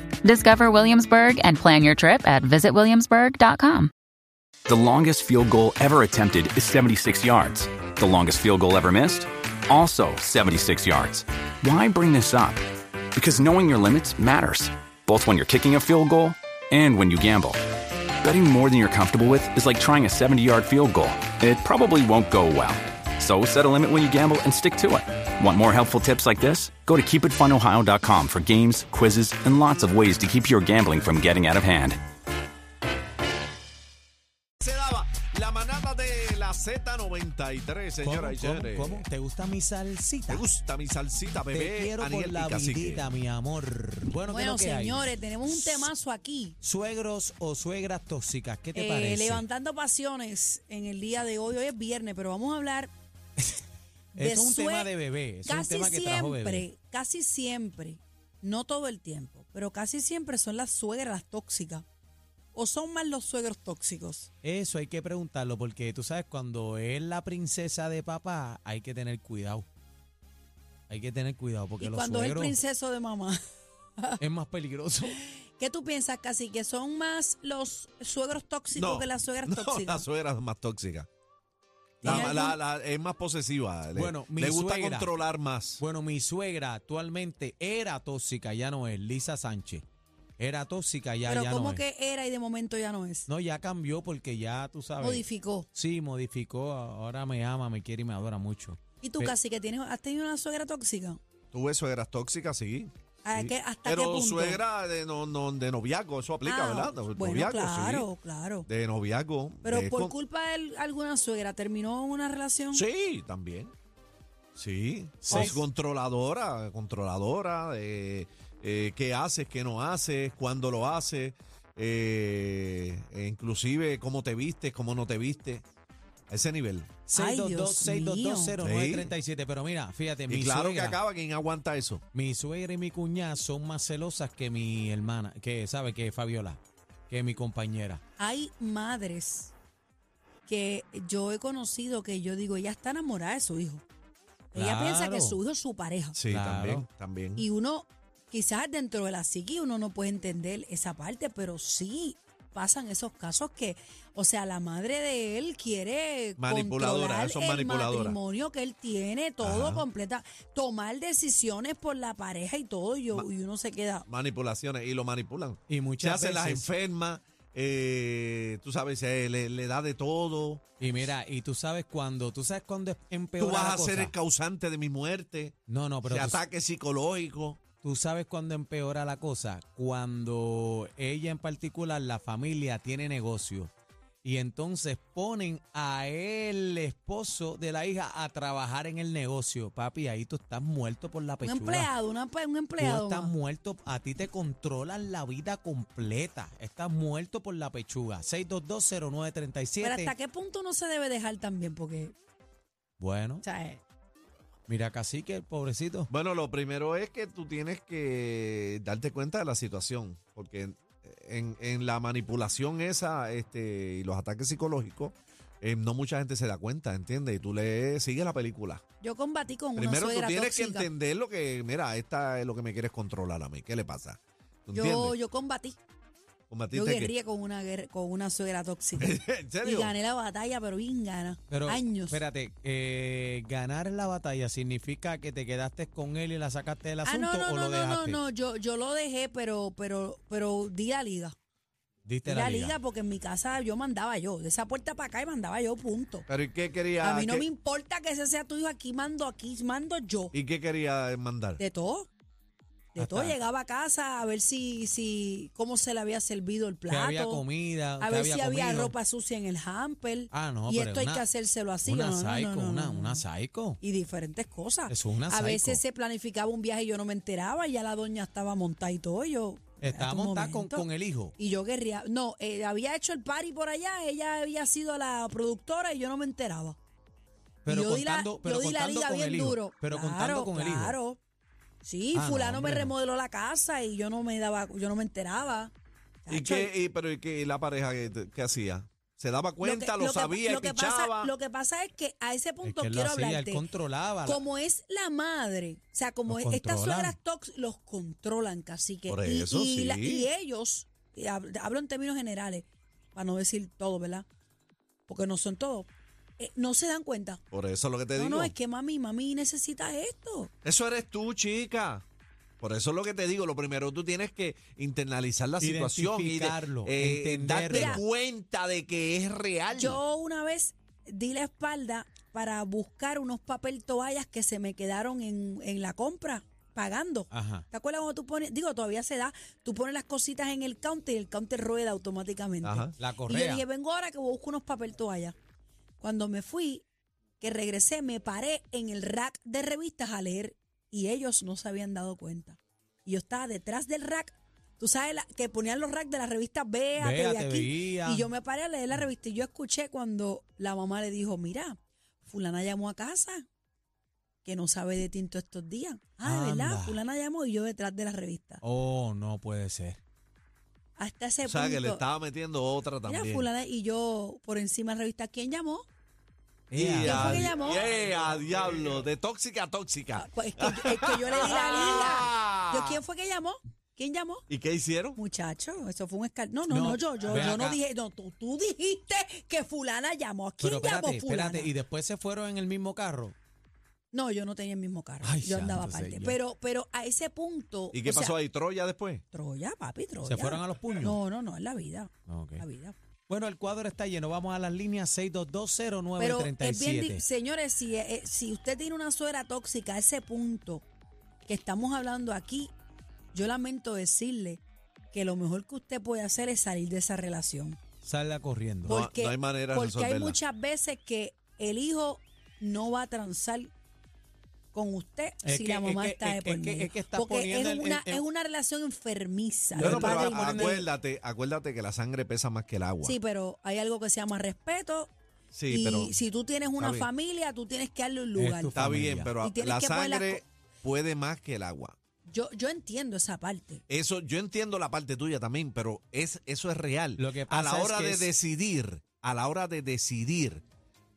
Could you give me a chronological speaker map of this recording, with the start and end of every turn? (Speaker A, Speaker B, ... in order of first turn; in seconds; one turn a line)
Speaker A: 0.2-3.9
Speaker B: 4.7-17.6
Speaker B: 18.2-32.0
Speaker C: 34.6-39.1
Speaker D: 38.0-40.4
Speaker C: 40.3-43.1
Speaker D: 41.5-45.9
Speaker E: 44.3-46.6
Speaker D: 46.6-49.4
Speaker E: 48.7-52.9
Speaker D: 54.1-56.7
Speaker E: 54.2-54.9
Speaker E: 55.5-61.9
Speaker E: 62.5-64.3
Speaker D: 64.4-69.7
Speaker D: 70.9-72.6
Speaker E: 71.8-73.4
Speaker D: 74.2-75.2
Speaker E: 75.3-80.1
Speaker C: 78.7-81.1
Speaker E: 82.0-82.6
Speaker C: 82.0-85.8
Speaker D: 82.0-82.4
Speaker D: 83.9-85.1
Speaker D: 85.8-89.8
Speaker D: 90.4-91.8
Speaker E: 91.3-93.3
Speaker D: 93.3-99.3
Speaker E: 95.0-95.7
Speaker E: 99.0-101.2
Speaker C: 101.5-108.1
Speaker E: 103.2-104.6
Speaker E: 106.4-108.7
Speaker C: 108.7-110.1
Speaker E: 109.6-112.8
Speaker C: 112.7-113.7
Speaker C: 114.6-125.6
Speaker D: 115.2-115.7
Speaker E: 115.3-115.6
Speaker C: 126.3-126.9
Speaker D: 127.1-131.0
Speaker E: 127.1-128.6
Speaker C: 128.6-129.1
Speaker C: 130.3-132.0
Speaker D: 132.1-138.0
Speaker E: 138.2-139.5
Speaker E: 140.5-143.8
Speaker E: 144.5-146.2
Speaker D: 144.6-145.4
Speaker C: 146.1-147.5
Speaker D: 146.3-146.9
Speaker E: 147.4-164.1
Speaker C: 156.4-158.2
Speaker C: 159.4-159.9
Speaker C: 164.1-170.6
Speaker D: 165.7-166.7
Speaker D: 170.8-174.1
Speaker C: 173.4-177.6
Speaker D: 175.7-176.4
Speaker D: 177.8-183.7
Speaker D: 184.2-191.9
Speaker E: 191.4-193.3
Speaker D: 192.8-200.1
Speaker E: 199.8-202.2
Speaker D: 203.0-203.4
Speaker E: 203.4-203.8
Speaker D: 204.7-206.1
Speaker C: 206.1-218.8
Speaker E: 219.0-220.9
Speaker C: 219.8-225.2
Speaker E: 224.7-225.8
Speaker C: 226.5-227.1
Speaker E: 226.7-232.2
Speaker C: 229.0-230.0
Speaker D: 231.5-238.2
Speaker E: 237.1-241.4
Speaker D: 242.1-242.8
Speaker E: 242.2-246.3
Speaker C: 246.3-247.5
Speaker E: 247.0-250.3
Speaker C: 250.3-251.6
Speaker E: 251.6-252.1
Speaker E: 252.9-257.4
Speaker D: 253.0-253.4
Speaker D: 256.9-259.0
Speaker E: 258.0-263.2
Speaker D: 260.3-261.3
Speaker D: 261.8-263.8
Speaker E: 263.8-276.8
Speaker D: 264.9-265.8
Speaker D: 269.8-271.3
Speaker D: 277.6-281.0
Speaker E: 277.7-281.2
Speaker E: 281.8-286.7
Speaker D: 282.1-282.9
Speaker C: 286.3-291.3
Speaker E: 289.6-293.7
Speaker D: 292.6-294.4
Speaker E: 294.2-304.3
Speaker D: 296.3-297.2
Speaker C: 299.1-300.3
Speaker E: 305.1-307.4
Speaker C: 307.5-308.5
Speaker E: 308.1-310.5
Speaker C: 310.6-312.0
Speaker C: 312.6-320.0
Speaker D: 315.6-318.0
Speaker E: 317.7-318.0
Speaker E: 319.7-335.4
Speaker D: 327.3-327.6
Speaker C: 332.6-332.9
Speaker D: 333.0-333.7
Speaker E: 336.0-336.9
Speaker E: 337.4-353.5
Speaker D: 346.9-348.3
Speaker E: 354.4-358.6
Speaker D: 356.2-357.0
Speaker D: 358.6-360.0
Speaker E: 361.0-362.1
Speaker C: 361.4-363.5
Speaker E: 363.1-365.9
Speaker D: 366.7-367.5
Speaker C: 366.7-373.0
Speaker E: 367.0-367.9
Speaker E: 370.1-374.4
Speaker C: 374.5-375.2
Speaker E: 375.2-381.7
Speaker D: 376.7-377.8
Speaker D: 380.6-383.4
Speaker E: 384.1-388.4
Speaker D: 385.2-386.4
Speaker C: 387.9-389.2
Speaker E: 389.3-393.0
Speaker D: 390.2-391.2
Speaker D: 392.3-392.6
Speaker D: 393.3-397.2
Speaker E: 396.2-400.9
Speaker E: 401.5-402.7
Speaker E: 403.3-407.8
Speaker D: 408.0-409.0
Speaker E: 408.9-413.7
Speaker C: 408.9-410.4
Speaker E: 414.7-420.9
Speaker D: 415.4-418.2
Speaker D: 419.8-420.8
Speaker C: 419.8-423.2
Speaker E: 423.0-425.1
Speaker C: 425.5-426.1
Speaker E: 425.7-428.8
Speaker C: 426.8-427.1
Speaker D: 428.4-429.3
Speaker C: 428.8-431.9
Speaker E: 429.4-430.5
Speaker E: 432.3-433.8
Speaker C: 433.9-440.6
Speaker D: 437.2-438.3